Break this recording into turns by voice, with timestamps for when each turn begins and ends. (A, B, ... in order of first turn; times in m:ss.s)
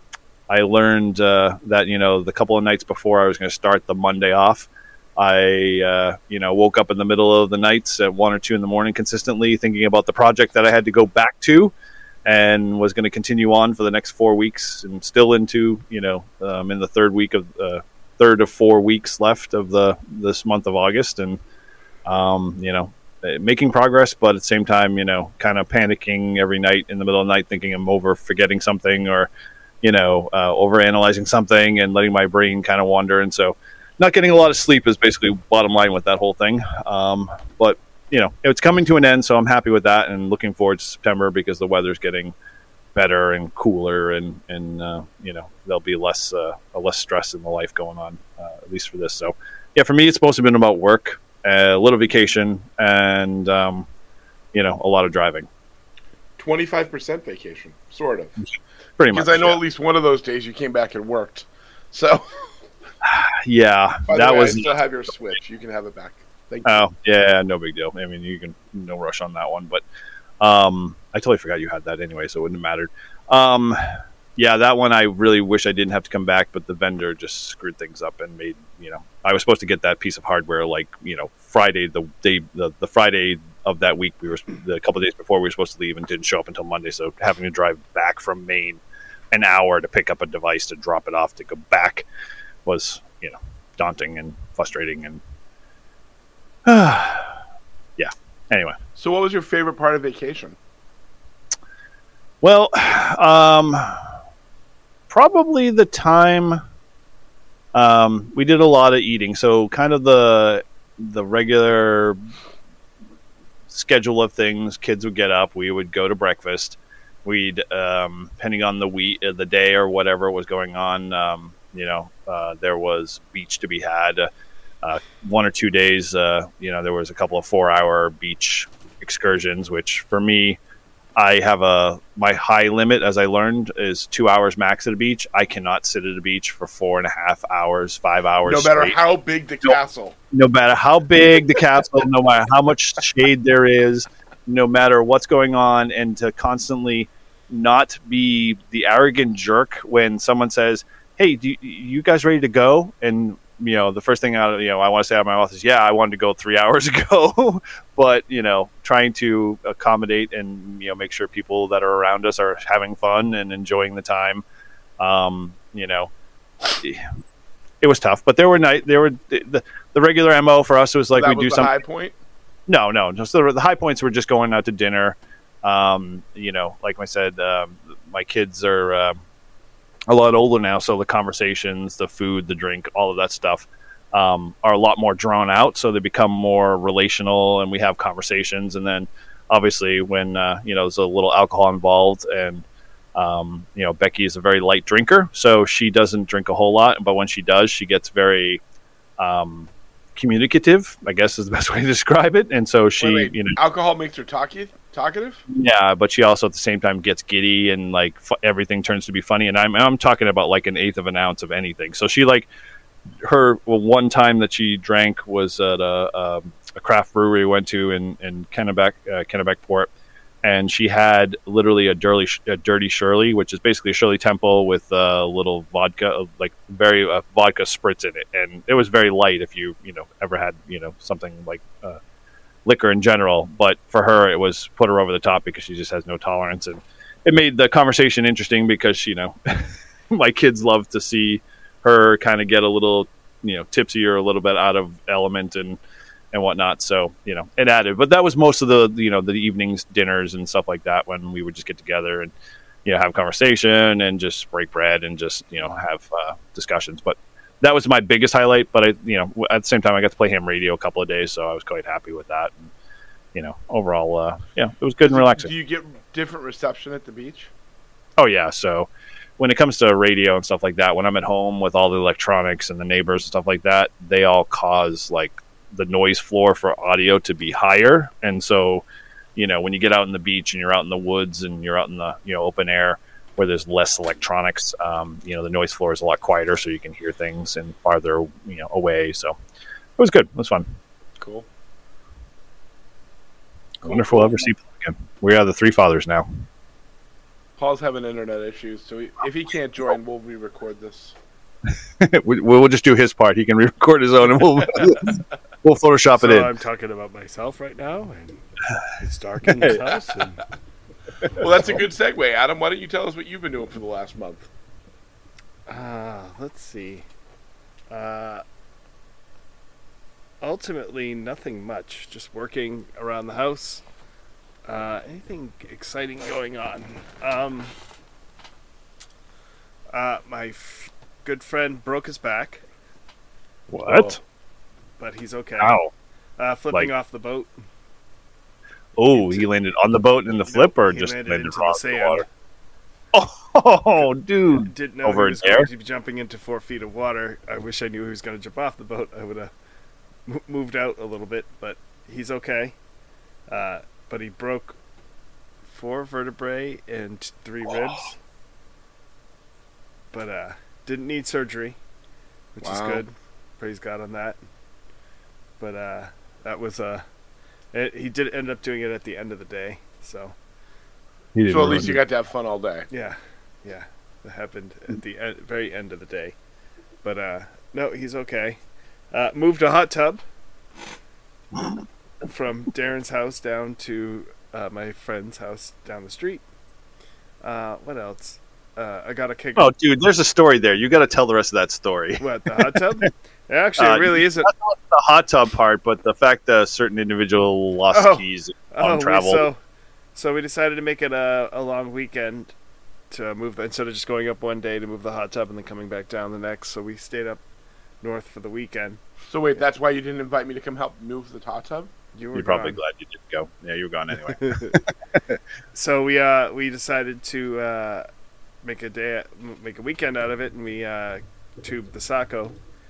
0:00.5-0:11.7 A
0:12.2-0:21.4 A
0:22.0-0:29.3 A
0:29.8-0:42.3 A
0:42.9-0:53.9 A
0:54.5-0:55.5 A
0:56.4-0:58.4 B
0:59.0-0:59.6 A
0:59.1-1:02.5 B
1:03.0-1:04.7 A
1:04.1-1:06.8 B
1:06.6-1:09.8 A
1:10.4-1:32.0 A
1:32.6-1:35.2 A
1:36.6-1:37.4 A
1:38.0-1:38.8 A
1:39.0-1:40.6 B
1:42.4-1:44.1 A
1:45.1-1:46.6 A
1:47.7-1:52.2 A
1:53.7-2:04.3 A
2:04.8-2:10.6 A
2:11.2-2:19.0 A
2:18.4-2:20.2 B
2:20.3-2:44.4 A
2:45.0-2:46.1 A
2:46.6-2:47.0 A
2:47.8-2:51.8 A
2:51.2-2:52.1 B
2:52.7-2:59.2 A
3:00.1-3:18.6 A
3:19.2-3:23.6 A
3:23.0-3:25.4 B
3:25.5-3:32.5 A
3:33.2-3:39.9 A
3:40.4-3:52.0 A
3:52.6-4:05.8 A
4:06.3-4:12.3 A
4:12.8-4:22.7 A
4:23.3-4:25.5 A
4:25.1-4:27.5 B
4:28.2-4:38.8 A
4:39.4-4:49.4 A
4:50.0-4:50.7 A
4:51.2-4:51.4 B
4:53.8-4:56.3 A
4:53.8-4:54.4 B
4:57.6-5:01.2 B
5:02.0-5:06.5 A
5:06.2-5:10.4 C
5:09.5-5:09.8 A
5:11.4-5:14.5 B
5:15.6-5:17.0 C
5:17.9-5:18.4 C
5:20.4-5:23.8 C
5:24.6-5:27.7 C
5:29.9-5:32.6 C
5:33.7-5:34.2 A
5:33.8-5:34.1 B
5:35.0-5:35.8 C
5:35.6-5:35.9 A
5:36.4-5:37.6 C
5:39.0-5:42.2 A
5:39.1-5:39.5 C
5:40.5-5:42.3 C
5:43.1-5:45.7 A
5:44.5-5:49.5 C
5:50.2-5:52.8 C
5:53.5-5:54.8 C
5:55.6-5:58.2 C
6:00.1-6:01.8 C
6:02.5-6:04.4 C
6:02.6-6:03.0 B
6:05.6-6:07.0 C
6:07.7-6:10.4 C
6:11.3-6:12.0 A
6:11.5-6:12.9 B
6:12.9-6:16.4 C
6:17.0-6:18.6 C
6:19.1-6:20.2 C
6:22.2-6:26.4 C
6:27.4-6:29.7 C
6:29.6-6:32.8 A
6:32.2-6:34.5 C
6:33.8-6:39.5 A
6:37.9-6:39.6 C
6:40.1-6:42.5 C
6:43.1-6:47.4 C
6:48.0-6:49.0 C
6:49.3-6:51.9 B
6:52.1-6:52.8 C
6:52.3-6:55.4 A
6:54.2-6:54.8 C
6:55.7-6:58.1 C
6:58.6-7:02.6 C